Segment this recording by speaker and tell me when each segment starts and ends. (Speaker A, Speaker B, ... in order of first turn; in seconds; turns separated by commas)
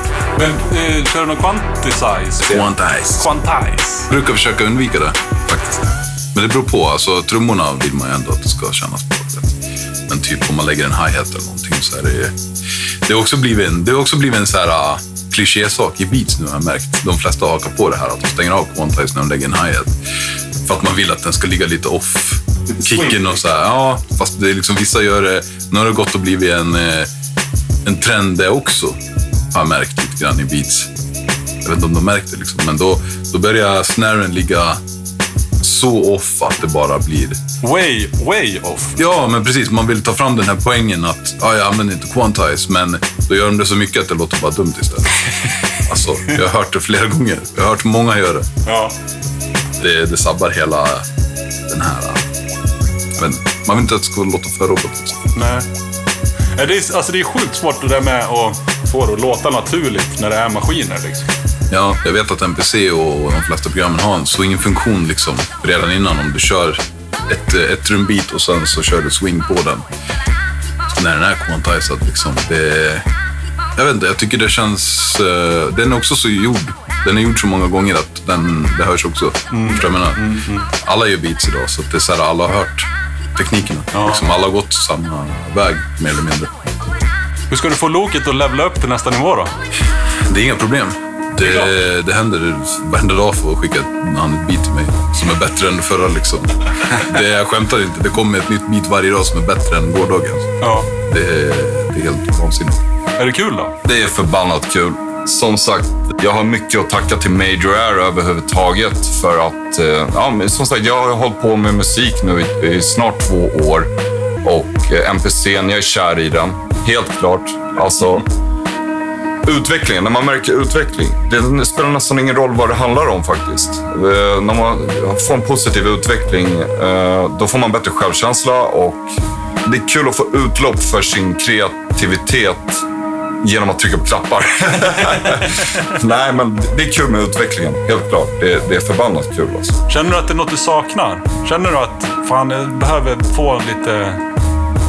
Speaker A: 0.3-4.1, Speaker B: 2.4-3.3, Speaker B: 4.1-5.2, Speaker B: 6.3-9.6, Speaker B: 10.1-12.3, Speaker B: 13.1-19.9, Speaker B: 20.6-27.1, Speaker B: 27.8-29.0, Speaker B: 29.5-30.9, Speaker B: 31.6-34.8, Speaker B: 35.6-37.4, Speaker A: 37.6-39.0, Speaker B: 39.0-45.2, Speaker B: 45.7-48.5, Speaker A: 48.6-48.9, Speaker B: 49.8-51.1, Speaker B: 51.7-52.2, Speaker B: 53.1-55.3, Speaker A: 55.3-55.6, Speaker A: 56.5-61.3, Speaker B: 61.7-69.8, Speaker B: 70.9-73.0, Speaker B: 73.8-86.5, Speaker A: 79.5-80.7, Speaker A: 83.9-84.3, Speaker A: 87.5-89.5, Speaker B: 90.3-102.8, Speaker A: 91.4-91.8, Speaker A: 100.6-100.9, Speaker A: 103.2-103.8, Speaker C: 103.8-113.9, Speaker C: 114.4-118.2, Speaker C: 119.4-132.8, Speaker C: 133.4-139.8, Speaker A: 139.9-144.2